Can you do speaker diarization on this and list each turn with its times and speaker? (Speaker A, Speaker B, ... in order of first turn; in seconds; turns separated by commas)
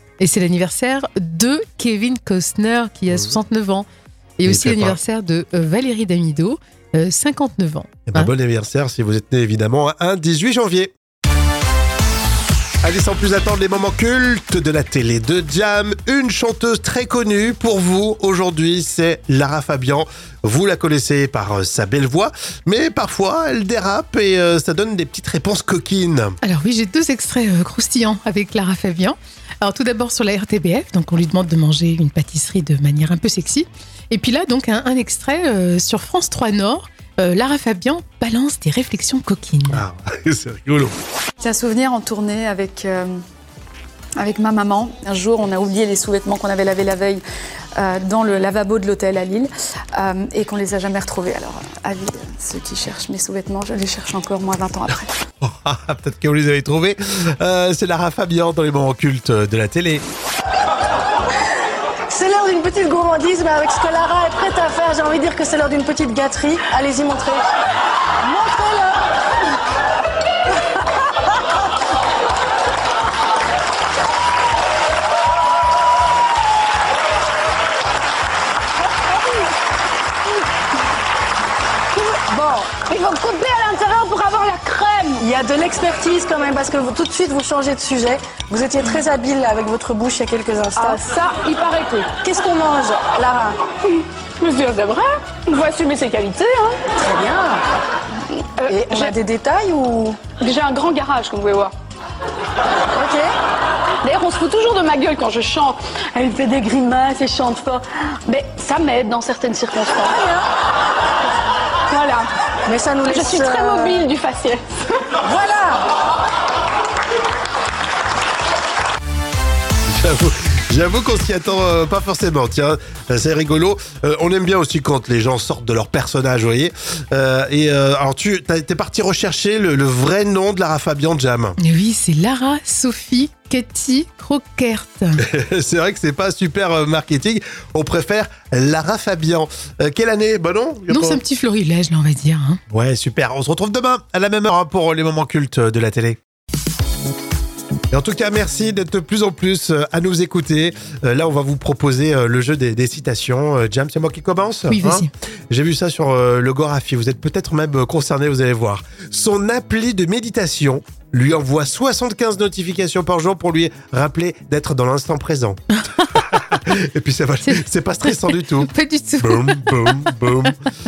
Speaker A: 0.2-3.9, Speaker B: 3.1-3.4, Speaker A: 4.4-8.3, Speaker B: 4.5-5.0, Speaker B: 8.1-10.9, Speaker B: 12.8-26.4, Speaker A: 26.4-39.8, Speaker B: 39.7-41.0, Speaker C: 41.4-43.2, Speaker C: 44.2-47.2, Speaker C: 47.8-55.1, Speaker B: 55.4-60.0, Speaker D: 62.1-67.5, Speaker D: 68.2-69.1, Speaker D: 82.2-82.7, Speaker E: 82.8-85.2, Speaker D: 85.2-91.0, Speaker E: 90.8-92.2, Speaker D: 92.2-93.6, Speaker E: 93.9-96.9, Speaker D: 97.0-97.7, Speaker E: 98.6-99.2, Speaker D: 98.7-100.2, Speaker E: 100.4-101.7, Speaker D: 102.9-103.3, Speaker E: 104.0-110.3, Speaker E: 111.9-112.3, Speaker D: 112.7-114.0, Speaker E: 113.1-114.6, Speaker D: 115.2-115.9, Speaker B: 119.8-131.6, Speaker A: 131.6-135.2, Speaker B: 135.2-141.2, Speaker A: 140.9-142.6, Speaker B: 142.7-146.2, Speaker B: 147.9-170.6, Speaker A: 154.7-155.1, Speaker A: 167.4-170.3